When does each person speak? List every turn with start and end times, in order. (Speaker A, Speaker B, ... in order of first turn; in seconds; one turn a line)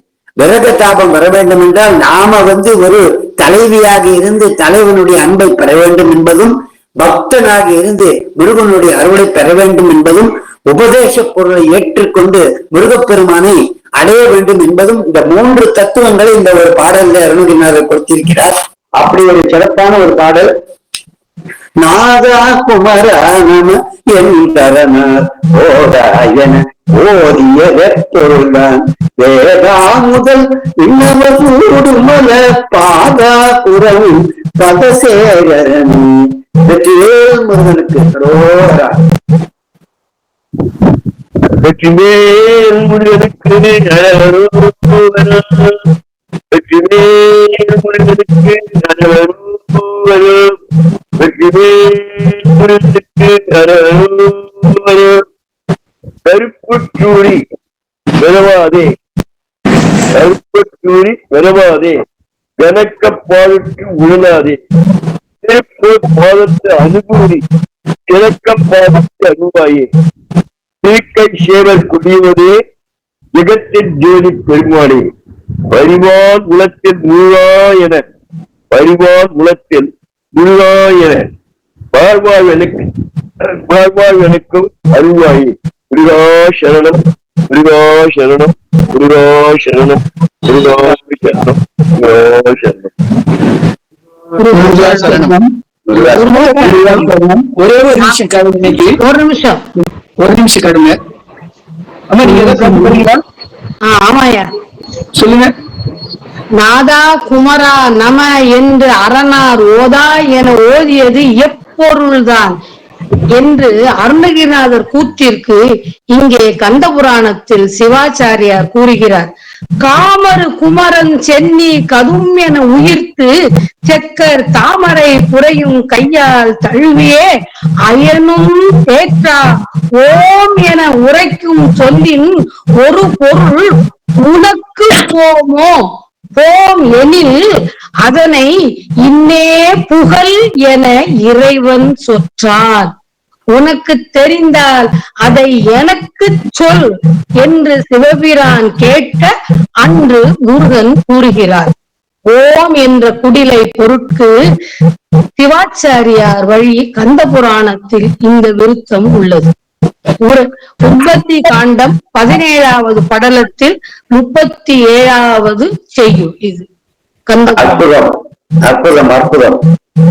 Speaker A: 0.4-20.5
Speaker A: 21.8-38.9
Speaker B: 41.6-45.9
Speaker B: 46.5-50.5
Speaker B: 51.2-55.2
Speaker B: 56.2-57.4
Speaker B: 58.2-59.0
Speaker B: 60.1-62.0
Speaker B: 62.6-64.6
Speaker B: 65.4-67.4
Speaker B: 68.1-69.9
Speaker B: 70.8-72.5
Speaker B: 73.3-75.0
Speaker B: 75.7-78.0
Speaker B: 78.7-81.3
Speaker B: 81.9-82.8
Speaker B: 83.6-87.0
Speaker B: 87.5-92.9
Speaker C: 94.4-95.3
Speaker D: 94.5-95.5
Speaker B: 95.9-96.3
Speaker C: 96.0-97.1
Speaker D: 96.2-99.0
Speaker C: 98.0-99.6
Speaker D: 100.2-101.0
Speaker D: 102.1-103.2
Speaker C: 102.3-103.0
Speaker C: 103.9-104.5
Speaker D: 105.2-105.5
Speaker C: 106.6-112.5
Speaker C: 113.3-115.6
Speaker C: 116.1-119.3
Speaker C: 119.8-123.3
Speaker C: 123.9-127.3
Speaker C: 127.9-129.4
Speaker C: 130.0-135.8
Speaker C: 136.3-137.4
Speaker C: 138.0-138.5
Speaker C: 139.0-142.9
Speaker C: 143.5-146.9
Speaker C: 147.4-149.3
Speaker C: 149.8-151.7
Speaker C: 152.3-154.3
Speaker C: 155.4-159.5
Speaker C: 160.2-166.7
Speaker C: 167.3-167.9
Speaker A: 167.6-168.1
Speaker A: 168.7-169.6